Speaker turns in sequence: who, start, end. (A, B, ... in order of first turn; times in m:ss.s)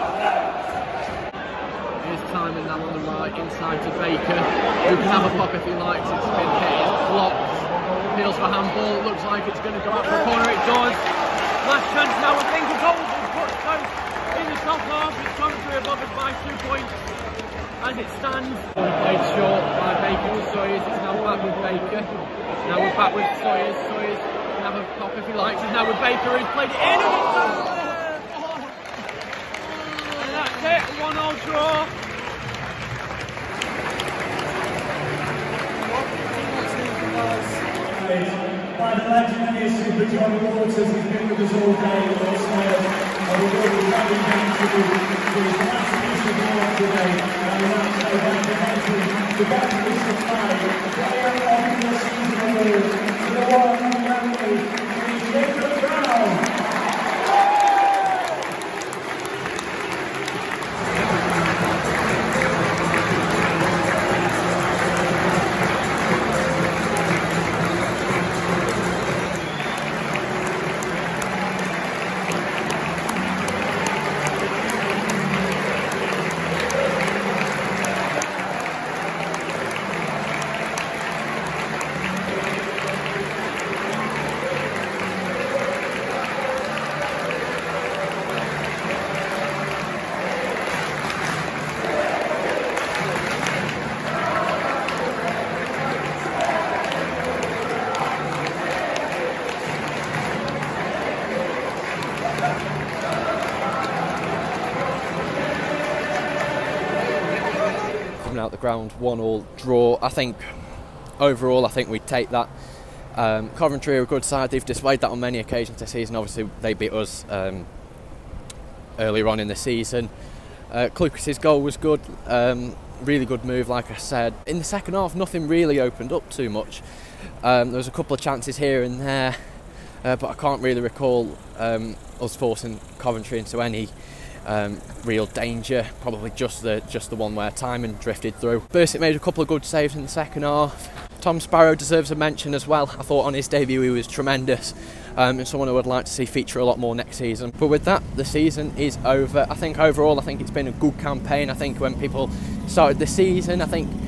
0:02.1-0:04.4 A
0:02.1-0:07.4 B
0:05.0-0:07.4 A
0:08.1-0:11.1 B
0:08.2-0:09.6 A
0:11.6-0:17.0 B
0:11.9-0:13.0 A
0:17.8-0:22.1 B
0:20.4-0:20.8 A
0:22.6-0:27.6 B
0:23.7-0:26.9 A
0:30.0-0:31.9 B
0:31.1-0:31.6 A
0:38.0-0:42.8 C
0:43.4-0:56.4 C
1:48.2-1:50.5 A
1:51.2-1:52.5 A
1:53.2-1:57.7 A
1:59.0-2:00.1 A
2:00.7-2:06.8 A
2:07.4-2:09.4 A
2:10.0-2:13.9 A
2:14.4-2:33.9 A